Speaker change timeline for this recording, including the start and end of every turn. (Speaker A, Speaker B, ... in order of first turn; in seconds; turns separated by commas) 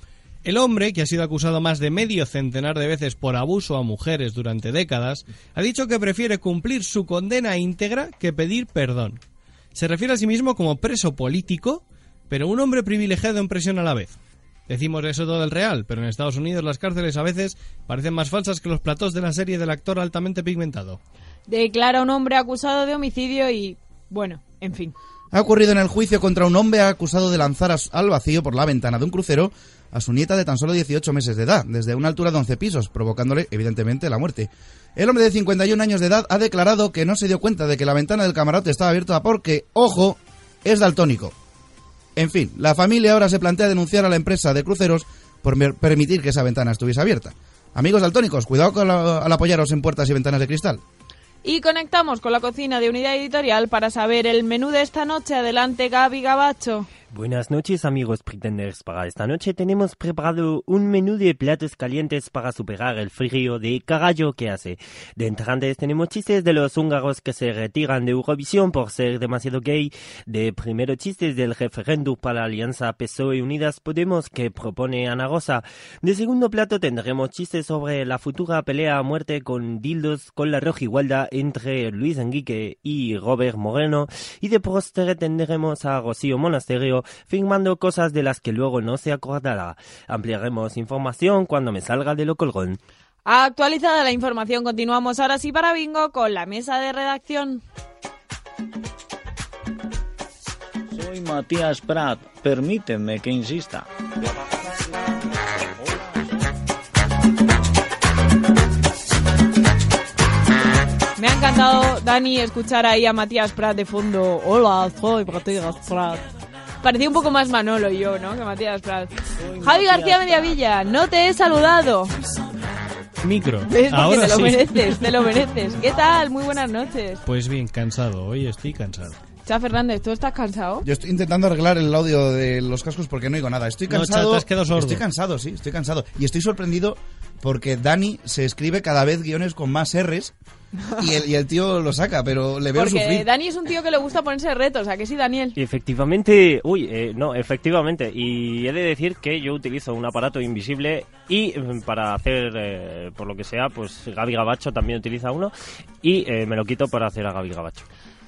Speaker A: 0.4-9.2, Speaker A: 9.7-21.0, Speaker B: 21.5-24.9, Speaker C: 25.3-41.3, Speaker C: 42.1-50.8, Speaker B: 51.4-56.9, Speaker D: 57.1-92.8, Speaker B: 93.2-97.6, Speaker E: 100.9-103.9, Speaker E: 105.8-106.1, Speaker B: 111.2-116.2, Speaker B: 116.8-122.1, Speaker E: 119.5-120.3, Speaker A: 123.2-125.0, Speaker B: 123.7-127.2, Speaker A: 127.2-129.2, Speaker B: 129.4-130.8, Speaker C: 130.8-140.3, Speaker A: 133.9-135.0, Speaker C: 141.0-143.3, Speaker B: 142.7-145.6, Speaker D: 145.6-157.8